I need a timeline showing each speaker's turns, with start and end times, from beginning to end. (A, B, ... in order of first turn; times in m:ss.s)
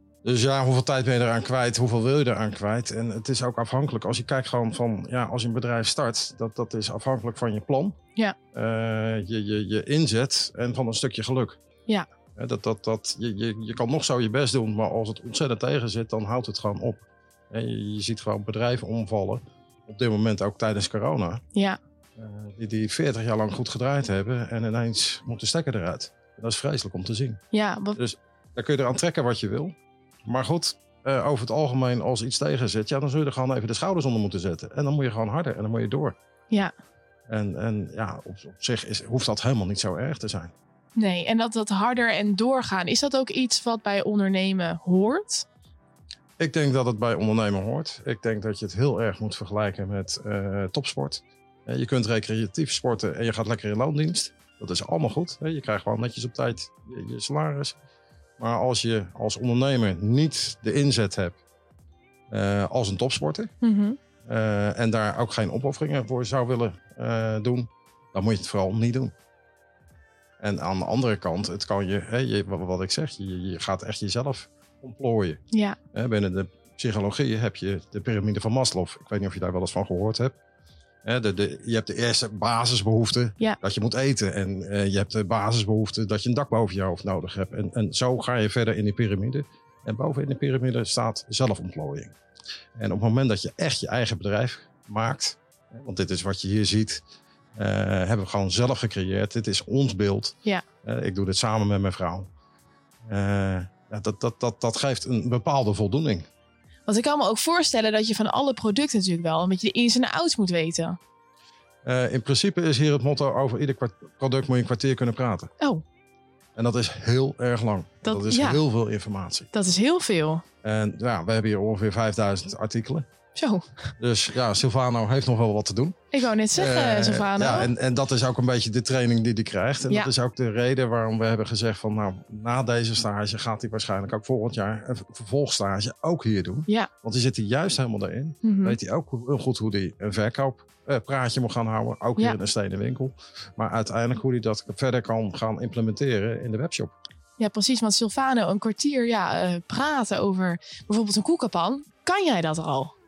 0:00.2-0:08.0 A
0:08.5-0:11.6 A
0:12.4-0:21.4 A
0:21.5-0:21.8 B
0:22.2-0:27.4 A
0:27.5-0:28.0 B
0:28.0-0:36.2 A
0:37.3-0:40.5 A
0:41.0-0:45.4 B
0:46.4-0:57.8 A
0:58.4-1:01.4 A
1:02.3-1:03.5 A
1:03.6-1:04.0 B
1:04.2-1:09.1 A
1:10.4-1:15.4 A
1:15.5-1:15.8 B
1:15.9-1:20.4 A
1:21.0-1:32.1 A
1:32.8-1:37.0 A
1:37.6-1:42.3 A
1:43.1-1:46.2 A
1:46.9-1:51.0 B
1:51.8-1:55.5 A
1:56.6-1:59.5 A
1:58.0-1:58.6 B
1:59.5-2:00.4 B
2:00.6-2:03.0 A
2:03.3-2:03.6 B
2:04.0-2:06.0 A
2:06.1-2:07.7 B
2:06.5-2:26.9 A
2:18.4-2:18.8 B
2:27.4-2:32.9 B